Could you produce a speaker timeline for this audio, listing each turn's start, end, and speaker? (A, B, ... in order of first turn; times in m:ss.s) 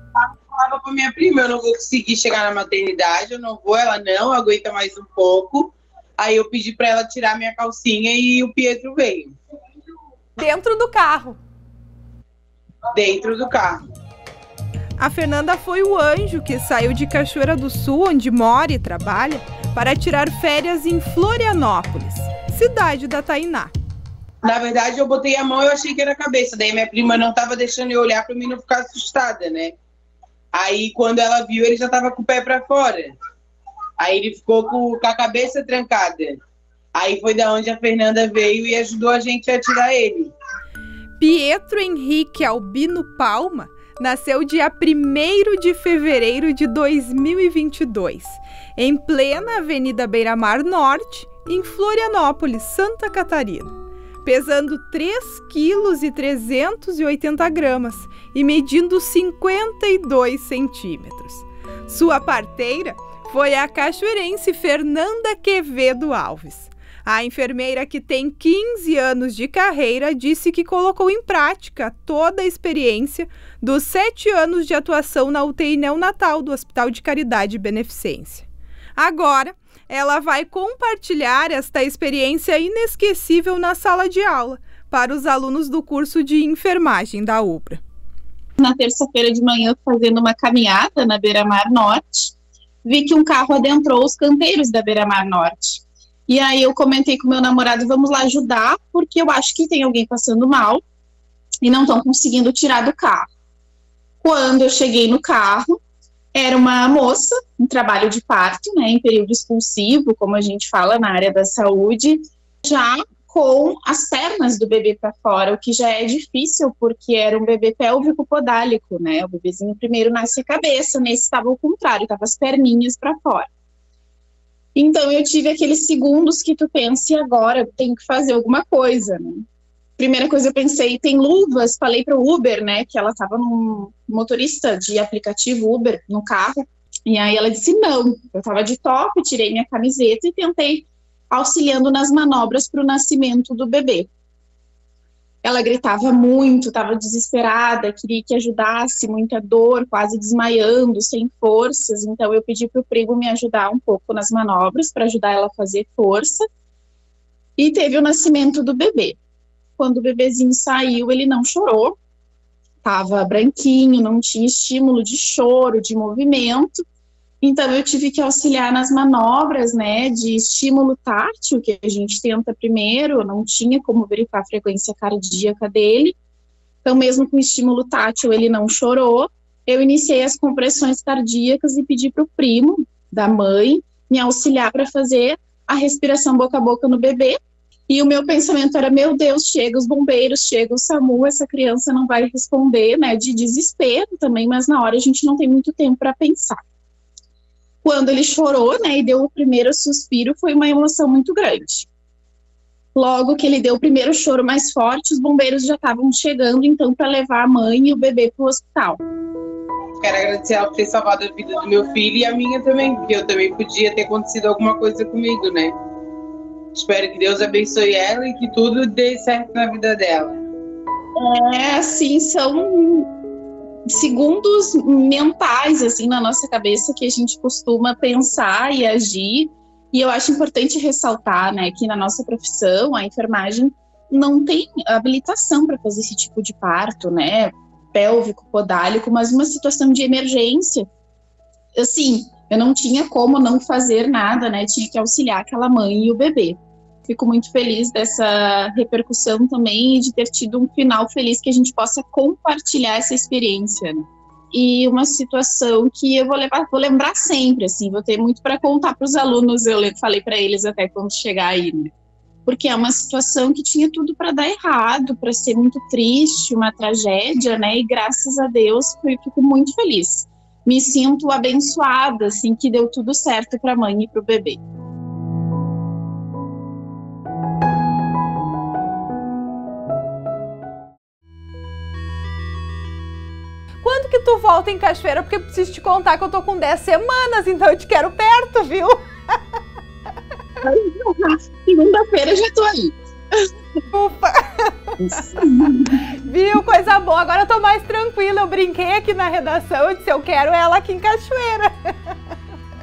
0:00.2-0:09.3 A
0:10.4-0:11.4 B
0:12.9-0:13.8 A
0:15.0-0:23.7 B
0:24.4-0:29.8 A
0:30.5-0:33.1 A
0:34.0-0:36.4 A
0:36.9-0:40.3 A
0:41.2-0:53.7 B
0:54.2-1:18.4 B
1:19.0-1:27.8 B
1:28.6-1:40.8 C
1:41.6-1:43.2 C
1:44.2-1:45.8 C
1:46.3-2:03.5 C
2:04.7-2:09.4 C
2:10.0-2:24.1 C
2:25.4-2:36.4 C
2:37.6-2:39.2 C
2:39.8-2:42.0 C
2:42.8-2:46.8 C
2:47.4-2:56.2 C
2:56.8-3:07.4 C
3:07.9-3:16.6 C
3:17.8-3:21.9 C
3:22.9-3:29.0 C
3:30.0-3:35.7 A
3:36.7-3:40.4 A
3:41.2-3:43.1 C
3:43.9-4:00.8 C
4:01.8-4:21.9 C
4:22.4-4:34.6 C
4:43.8-4:49.0 B
4:50.6-4:53.5 C
4:53.9-5:02.1 B
4:55.0-4:55.9 C